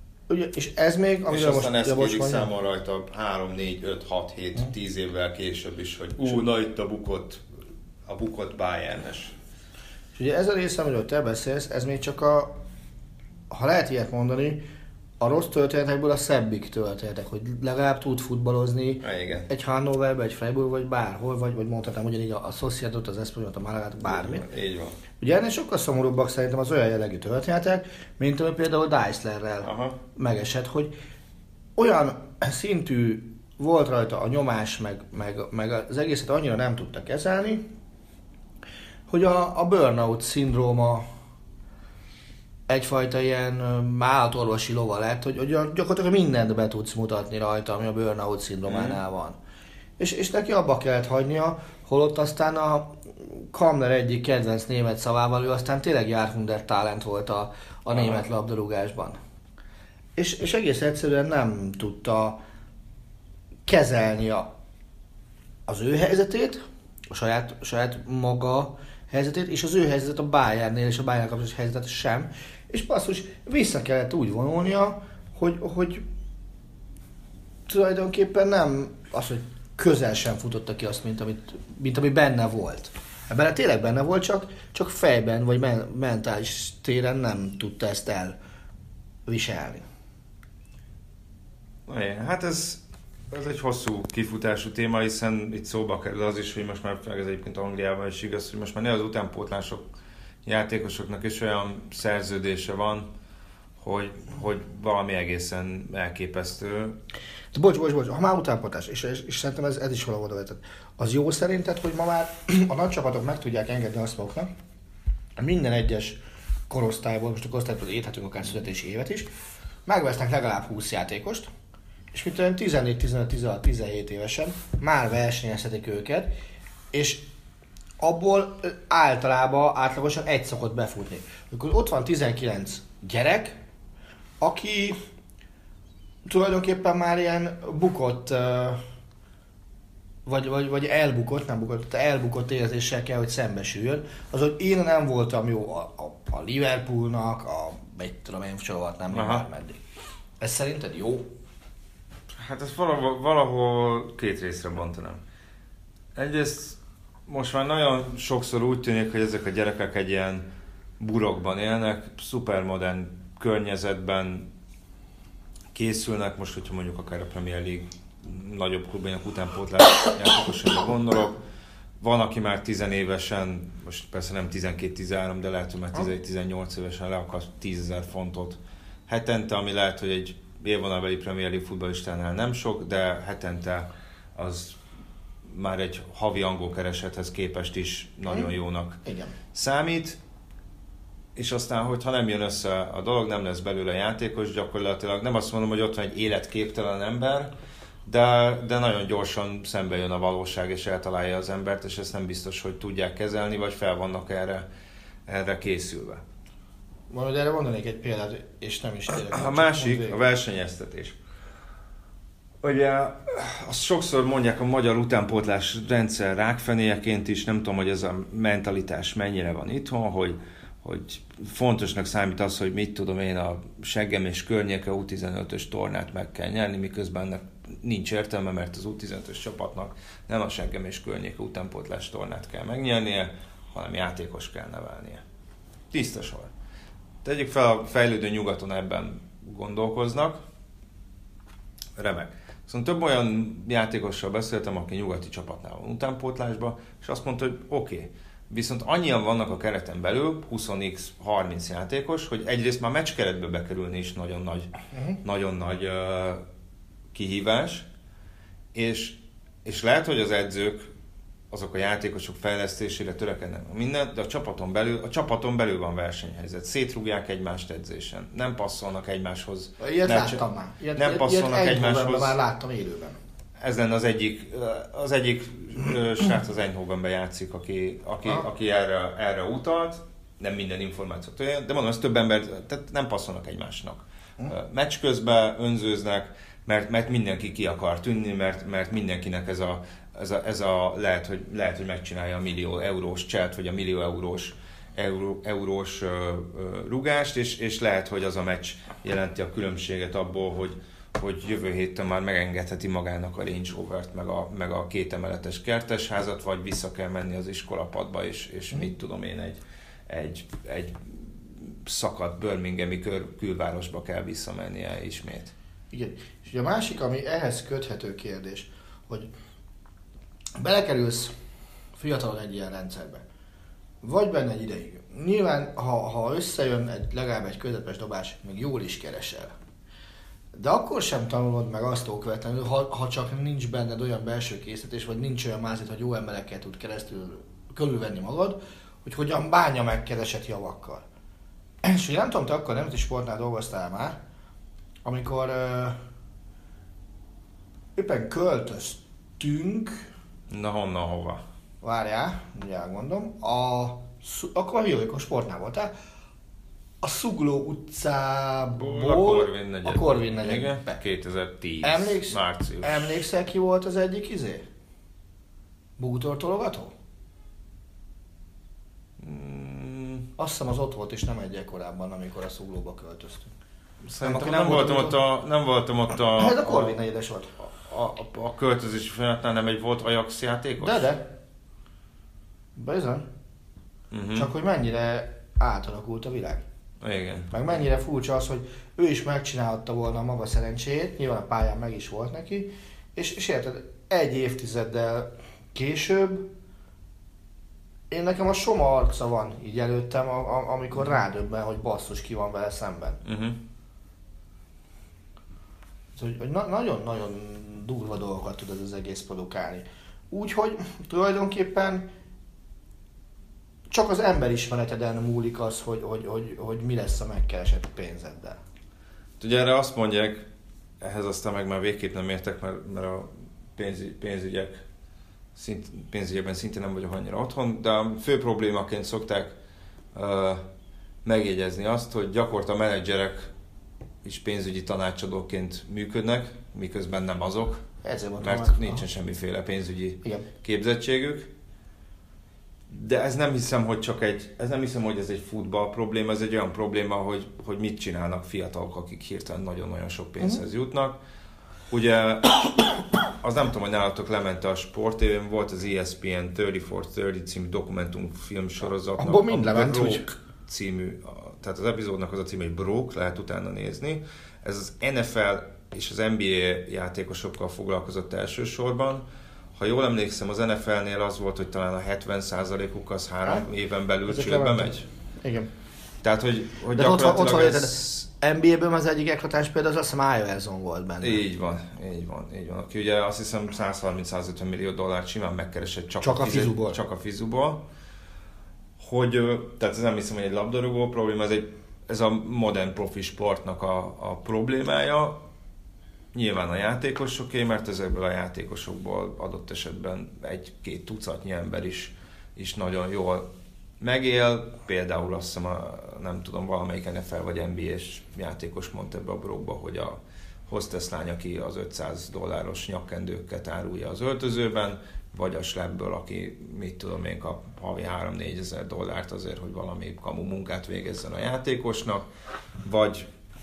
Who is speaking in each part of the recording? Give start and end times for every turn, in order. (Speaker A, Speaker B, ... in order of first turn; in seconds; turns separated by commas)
Speaker A: 0.3-2.5, Speaker B: 1.3-7.4, Speaker B: 8.1-9.3, Speaker A: 10.1-12.5, Speaker A: 13.5-14.6, Speaker A: 15.2-24.4, Speaker B: 19.0-19.5, Speaker B: 24.0-25.0, Speaker A: 25.2-30.9, Speaker B: 29.6-30.0, Speaker A: 31.8-37.7, Speaker A: 39.1-41.1, Speaker A: 42.7-49.4, Speaker B: 48.7-49.0, Speaker A: 50.0-59.2, Speaker B: 57.9-58.2, Speaker A: 60.1-62.4, Speaker A: 63.6-64.5, Speaker A: 65.7-76.0, Speaker A: 77.7-88.3, Speaker A: 89.2-89.8, Speaker B: 91.8-99.8, Speaker B: 100.4-103.1, Speaker B: 103.8-107.0, Speaker A: 107.5-114.5, Speaker A: 115.4-119.3, Speaker A: 119.8-121.5, Speaker A: 122.1-126.3, Speaker A: 126.9-127.3, Speaker A: 128.0-133.6, Speaker A: 134.4-135.0, Speaker A: 136.2-138.8, Speaker A: 140.2-149.8, Speaker B: 149.1-149.4, Speaker A: 150.4-151.3, Speaker B: 152.3-155.2, Speaker B: 156.1-160.5, Speaker B: 161.0-164.5, Speaker B: 165.7-171.4, Speaker B: 172.0-184.8, Speaker B: 185.4-189.0, Speaker A: 189.0-189.3, Speaker B: 189.5-190.2, Speaker B: 191.3-197.5, Speaker B: 198.1-204.6, Speaker B: 205.3-206.2, Speaker A: 207.1-210.2, Speaker B: 209.1-211.2, Speaker B: 212.6-235.2, Speaker B: 235.9-236.5, Speaker B: 237.2-240.4, Speaker B: 241.9-254.7, Speaker B: 255.2-256.4, Speaker B: 257.1-257.9, Speaker B: 258.7-260.9, Speaker B: 261.5-272.4, Speaker A: 269.8-273.2, Speaker B: 273.6-315.5, Speaker A: 315.9-319.3, Speaker A: 320.6-321.3, Speaker A: 321.9-323.2, Speaker A: 324.0-329.5, Speaker A: 330.5-341.0, Speaker A: 341.8-344.2, Speaker A: 345.0-346.0, Speaker A: 347.9-350.1, Speaker B: 350.5-351.4, Speaker A: 351.8-355.9, Speaker A: 357.0-361.0, Speaker B: 358.7-363.2, Speaker A: 361.8-364.6, Speaker A: 366.0-366.9, Speaker B: 369.2-370.3, Speaker A: 370.4-373.5, Speaker B: 374.0-377.0, Speaker A: 374.2-375.2, Speaker A: 376.4-377.5, Speaker B: 377.6-381.1, Speaker A: 380.8-381.2, Speaker A: 382.8-383.3, Speaker B: 384.1-384.5, Speaker A: 384.3-386.6, Speaker B: 387.0-387.5, Speaker A: 387.5-396.5, Speaker A: 398.1-403.2, Speaker B: 403.2-403.6, Speaker A: 406.1-412.1, Speaker A: 413.9-418.6, Speaker B: 419.4-420.4, Speaker B: 421.0-424.8, Speaker B: 425.5-429.5, Speaker B: 430.1-430.6, Speaker B: 431.2-433.5, Speaker B: 434.2-437.8, Speaker A: 438.0-439.0, Speaker B: 438.4-441.5, Speaker B: 442.9-451.2, Speaker B: 451.9-475.1, Speaker A: 459.2-460.3, Speaker A: 474.2-475.7, Speaker B: 476.2-478.2, Speaker A: 476.9-481.4, Speaker B: 481.2-487.9, Speaker A: 486.2-487.0, Speaker B: 489.0-495.4, Speaker B: 496.3-522.2, Speaker B: 522.8-523.3